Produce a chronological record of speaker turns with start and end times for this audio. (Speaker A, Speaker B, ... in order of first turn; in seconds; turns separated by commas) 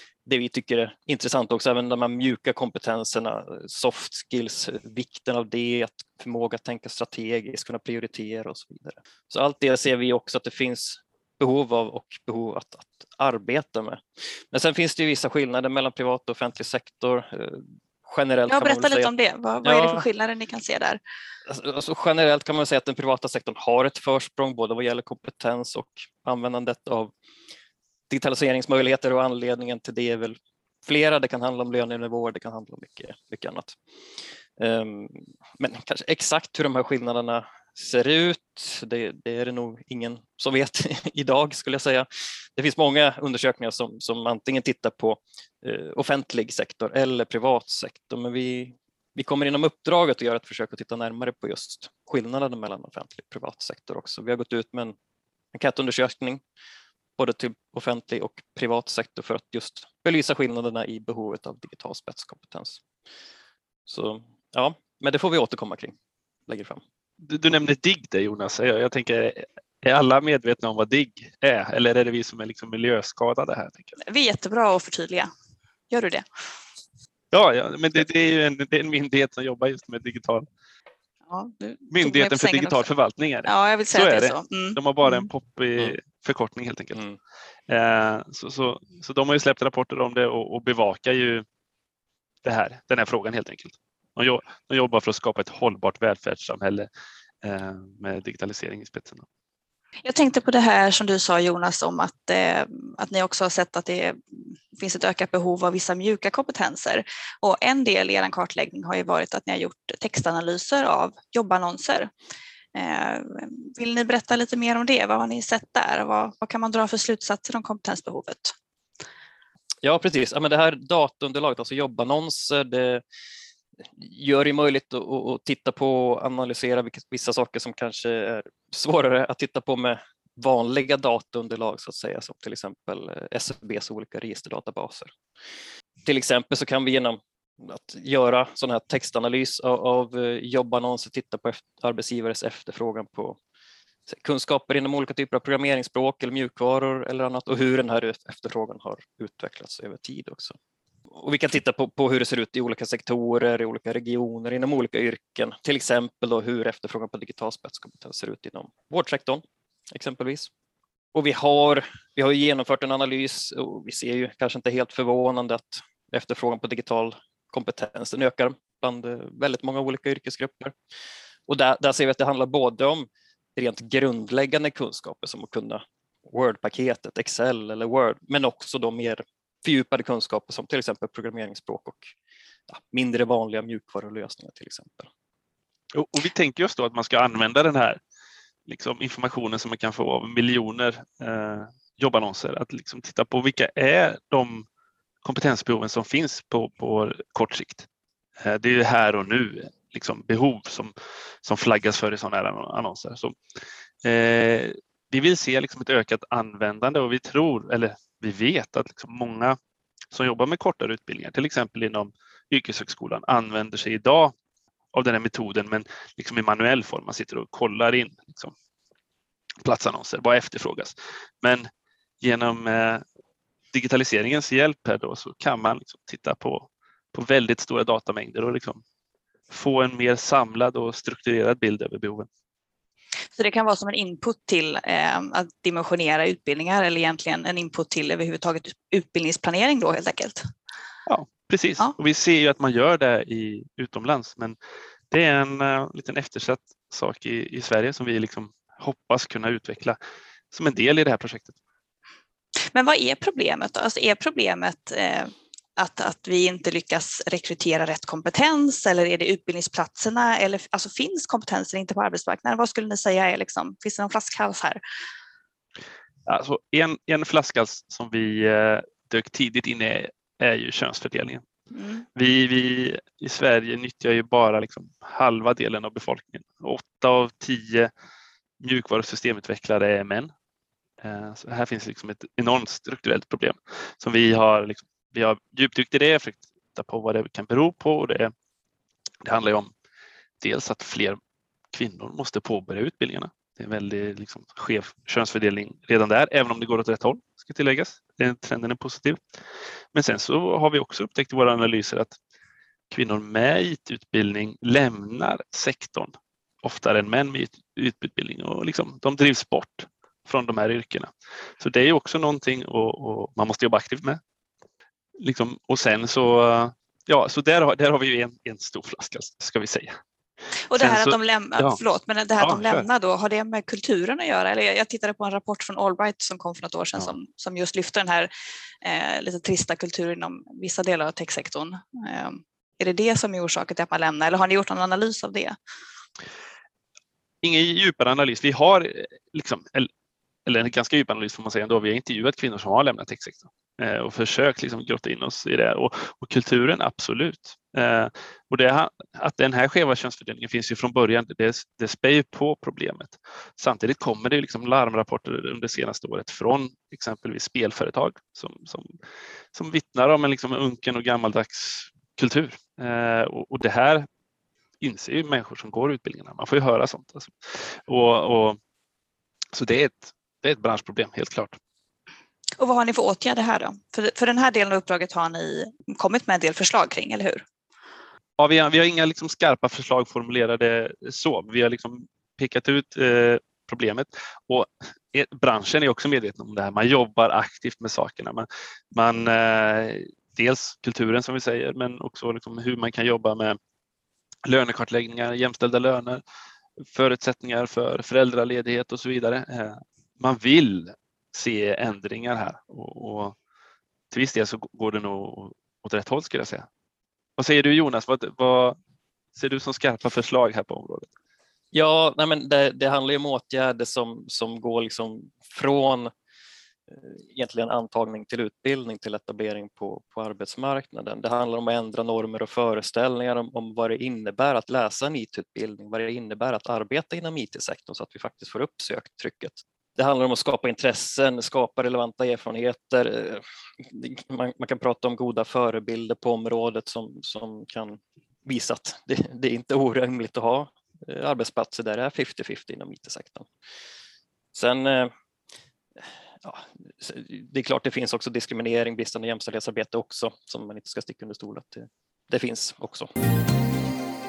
Speaker A: 0.2-19.1, Speaker B: 18.5-21.0, Speaker A: 19.6-20.1, Speaker A: 21.5-27.1, Speaker A: 28.1-33.8, Speaker A: 34.6-55.0, Speaker A: 55.5-56.4, Speaker A: 57.2-62.8, Speaker A: 63.9-66.0, Speaker A: 66.5-66.8, Speaker C: 67.2-74.0, Speaker B: 74.0-75.3, Speaker B: 75.9-76.3, Speaker C: 77.3-80.5, Speaker B: 81.3-82.9, Speaker C: 81.9-87.0, Speaker B: 83.5-85.3, Speaker C: 87.7-91.5, Speaker C: 92.4-96.9, Speaker C: 97.4-99.2, Speaker B: 100.0-112.1, Speaker B: 112.8-118.5, Speaker A: 119.8-123.0, Speaker A: 123.8-135.1, Speaker A: 136.1-143.4, Speaker A: 144.1-150.6, Speaker A: 151.1-160.5, Speaker A: 161.1-170.7, Speaker A: 171.5-182.1, Speaker A: 182.7-185.1, Speaker C: 185.9-188.0, Speaker C: 188.7-194.7, Speaker C: 195.2-197.9, Speaker C: 198.4-200.9, Speaker C: 201.4-203.4, Speaker C: 204.0-209.6, Speaker C: 210.1-214.3, Speaker C: 214.9-218.5, Speaker C: 219.6-221.7, Speaker C: 222.2-223.0, Speaker C: 223.7-228.8, Speaker C: 229.5-232.3, Speaker B: 233.3-240.4, Speaker C: 241.1-244.6, Speaker C: 245.1-250.0, Speaker C: 250.5-251.6, Speaker B: 252.7-264.8, Speaker C: 266.3-271.4, Speaker B: 271.7-272.0, Speaker C: 272.1-277.9, Speaker C: 278.6-280.3, Speaker C: 281.0-288.3, Speaker C: 289.2-289.7, Speaker C: 290.4-291.2, Speaker C: 291.7-299.2, Speaker C: 299.9-302.1, Speaker C: 302.9-314.2, Speaker C: 315.2-320.0, Speaker B: 320.7-328.3, Speaker C: 320.8-321.8, Speaker C: 322.4-322.9, Speaker B: 328.8-335.6, Speaker C: 337.4-339.9, Speaker C: 340.5-358.9, Speaker C: 359.5-364.1, Speaker C: 364.8-368.6, Speaker C: 369.5-371.6, Speaker B: 372.6-377.4, Speaker C: 378.4-393.6, Speaker C: 394.4-396.2, Speaker C: 396.8-403.4, Speaker C: 404.1-406.7, Speaker C: 407.4-408.8, Speaker C: 409.4-411.1, Speaker A: 411.7-416.1, Speaker A: 416.9-443.5, Speaker A: 444.5-445.1, Speaker A: 446.4-453.1